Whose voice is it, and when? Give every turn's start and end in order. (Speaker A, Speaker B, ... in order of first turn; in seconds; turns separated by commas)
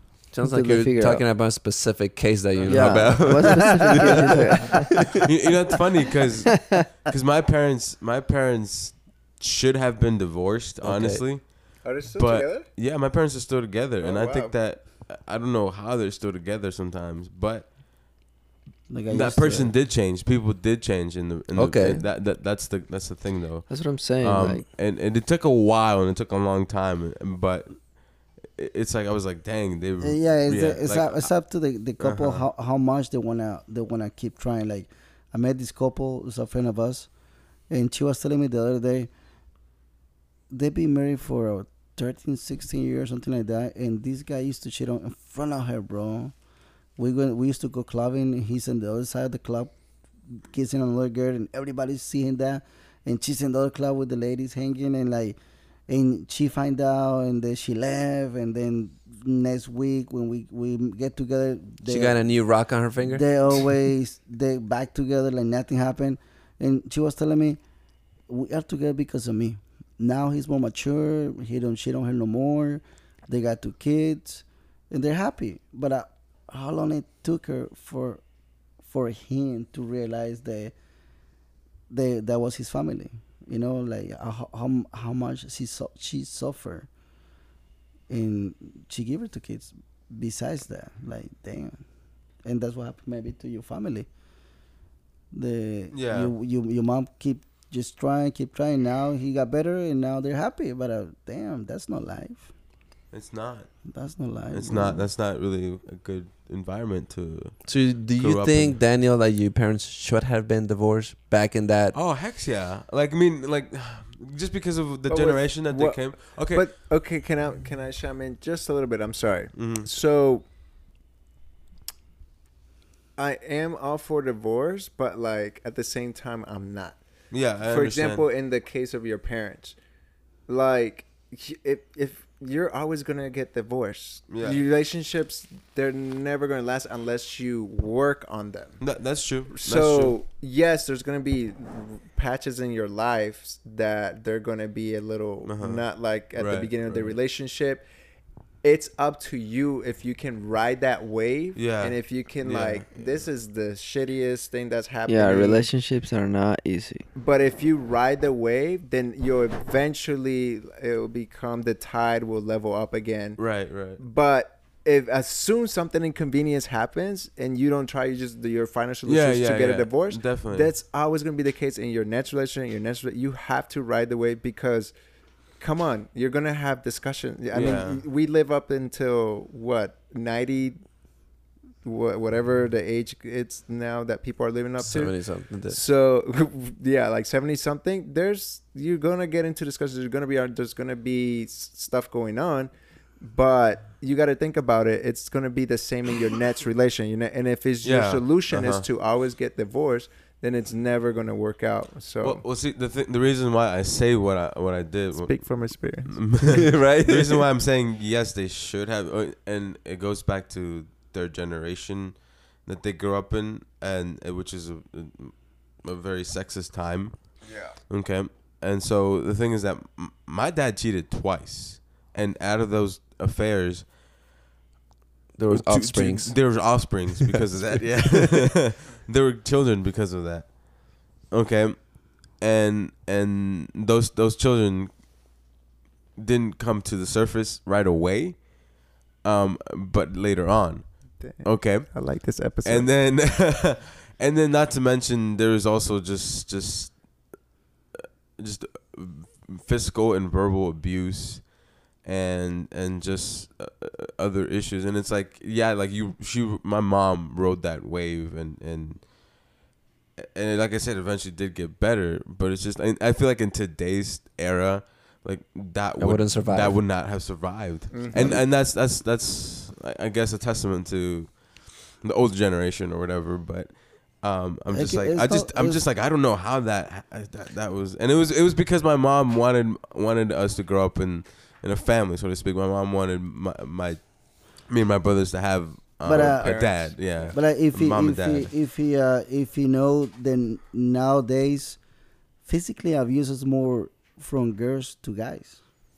Speaker A: 0.3-5.2, Speaker B: 0.4-1.2, Speaker C: 2.5-3.2, Speaker B: 2.7-5.0, Speaker C: 5.2-17.8, Speaker A: 10.8-11.2, Speaker D: 11.8-12.7, Speaker D: 14.0-14.5, Speaker E: 18.9-19.7, Speaker C: 19.1-31.3, Speaker A: 21.5-22.0, Speaker B: 23.7-24.6, Speaker E: 30.0-37.1, Speaker C: 32.0-32.4, Speaker E: 37.7-39.1, Speaker E: 40.5-46.3, Speaker E: 47.0-49.7, Speaker E: 50.3-55.4, Speaker E: 55.9-62.2, Speaker A: 61.9-63.2, Speaker E: 63.0-67.6, Speaker E: 68.3-78.2, Speaker E: 78.8-80.7, Speaker E: 81.9-86.9, Speaker E: 88.1-91.8, Speaker E: 92.4-94.1, Speaker E: 95.3-102.5, Speaker C: 95.9-96.3, Speaker C: 103.1-103.7, Speaker E: 103.9-105.1, Speaker C: 104.5-108.8, Speaker A: 107.7-112.0, Speaker C: 111.9-116.7, Speaker D: 115.1-120.5, Speaker C: 119.5-119.9, Speaker D: 123.2-127.0, Speaker C: 127.3-128.2, Speaker D: 127.6-129.8, Speaker D: 130.5-138.8, Speaker C: 134.3-134.6, Speaker C: 138.8-140.2, Speaker D: 139.5-147.8, Speaker C: 145.4-147.1, Speaker D: 148.6-155.7, Speaker C: 151.5-153.2, Speaker B: 155.1-157.0, Speaker D: 157.2-163.4, Speaker C: 163.4-164.0, Speaker D: 164.0-174.9, Speaker C: 169.1-170.7, Speaker D: 175.6-180.8, Speaker C: 177.5-178.0, Speaker D: 181.8-202.4, Speaker A: 184.8-185.8, Speaker C: 197.8-198.8, Speaker C: 202.2-223.9, Speaker D: 205.1-206.2, Speaker A: 206.4-207.4, Speaker D: 217.4-217.7, Speaker A: 225.3-226.9, Speaker C: 225.5-235.0, Speaker A: 228.0-228.4, Speaker C: 236.2-247.2, Speaker D: 241.2-242.9, Speaker C: 248.4-259.5, Speaker C: 260.2-288.5, Speaker A: 266.0-266.8, Speaker D: 267.9-268.4, Speaker E: 274.7-275.8, Speaker E: 286.0-291.8, Speaker D: 286.1-287.4, Speaker E: 292.4-295.6